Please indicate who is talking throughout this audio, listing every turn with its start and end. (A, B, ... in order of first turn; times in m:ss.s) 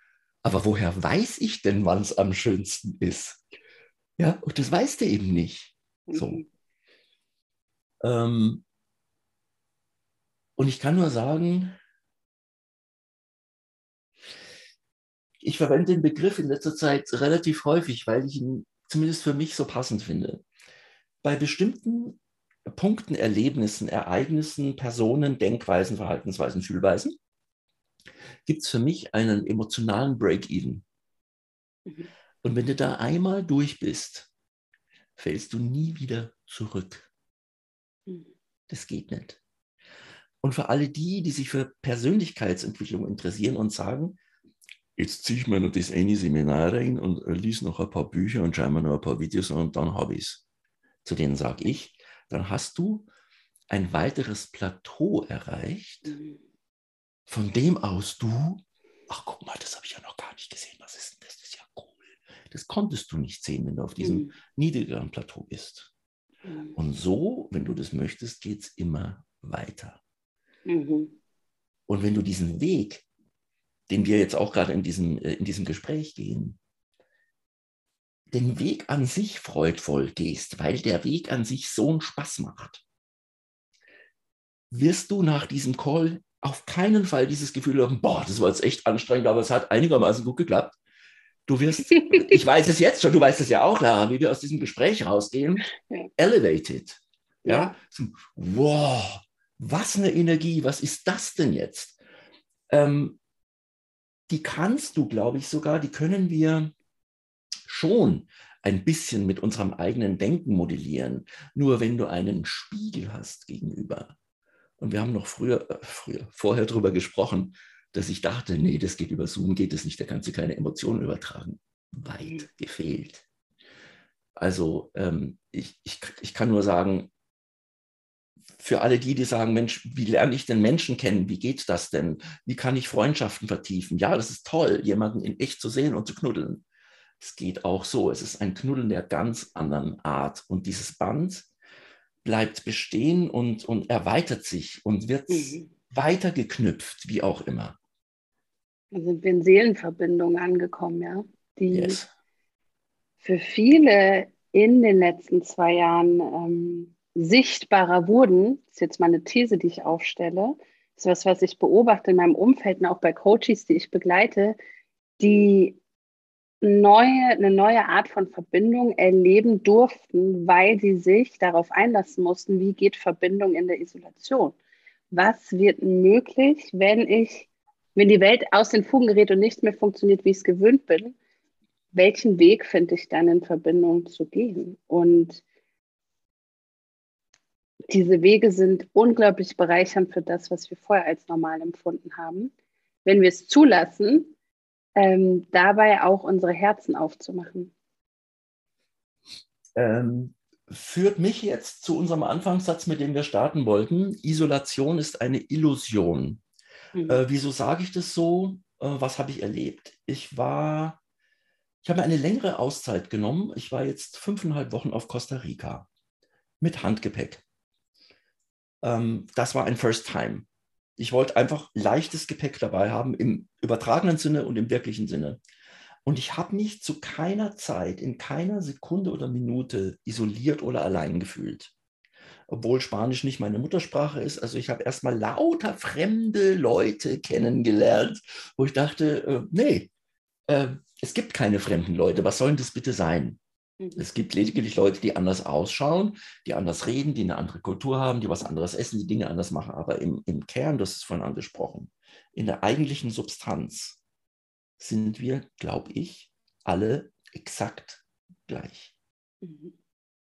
0:00.4-0:03.4 A
0:04.2-0:06.4 A
0:06.1-0:06.5 B
0:08.0-0:08.6 A
0:10.6-0:11.8 A
0:15.4-0:20.4 A
0:21.2-0:27.2 A
0:28.5-0:30.8 A
0:32.4-0:34.3 A
0:35.2-0:37.1 A
0:38.7-0:39.4 A
0:40.4-0:44.2 A
0:45.0-0:50.4 A
0:51.0-0:53.1 A
0:53.7-0:56.2 A
0:56.1-0:56.4 B
0:57.3-1:05.9 A
1:04.0-1:04.3 B
1:06.5-1:06.8 B
1:06.8-1:10.0 A
1:10.7-1:11.2 B
1:11.9-1:13.0 A
1:13.9-1:16.6 A
1:18.3-1:22.8 A
1:24.7-1:30.8 A
1:31.5-1:42.0 A
1:31.9-1:32.4 B
1:37.4-1:37.8 B
1:42.7-1:43.2 A
1:44.3-1:46.7 A
1:47.7-1:54.2 A
1:54.8-2:03.2 A
2:04.4-2:07.1 A
2:08.6-2:16.6 A
2:17.2-2:21.5 A
2:22.2-2:27.8 A
2:25.3-2:25.7 B
2:28.9-2:32.0 B
2:31.7-2:32.1 A
2:33.2-2:44.6 B
2:45.2-2:45.8 B
2:46.6-2:54.6 B
2:55.1-3:01.2 B
3:01.9-3:05.4 B
3:07.9-3:12.5 B
3:13.0-3:14.3 B
3:15.0-3:17.7 B
3:19.8-3:26.4 A
3:27.0-3:27.2 B
3:27.1-3:31.0 A
3:31.8-3:35.9 A
3:36.6-3:37.4 A
3:38.8-3:45.4 A
3:46.0-3:51.7 A
3:52.5-3:59.9 A
4:00.5-4:03.4 A
4:03.8-4:04.0 B
4:04.0-4:14.0 A
4:14.8-4:18.9 A
4:19.4-4:19.7 B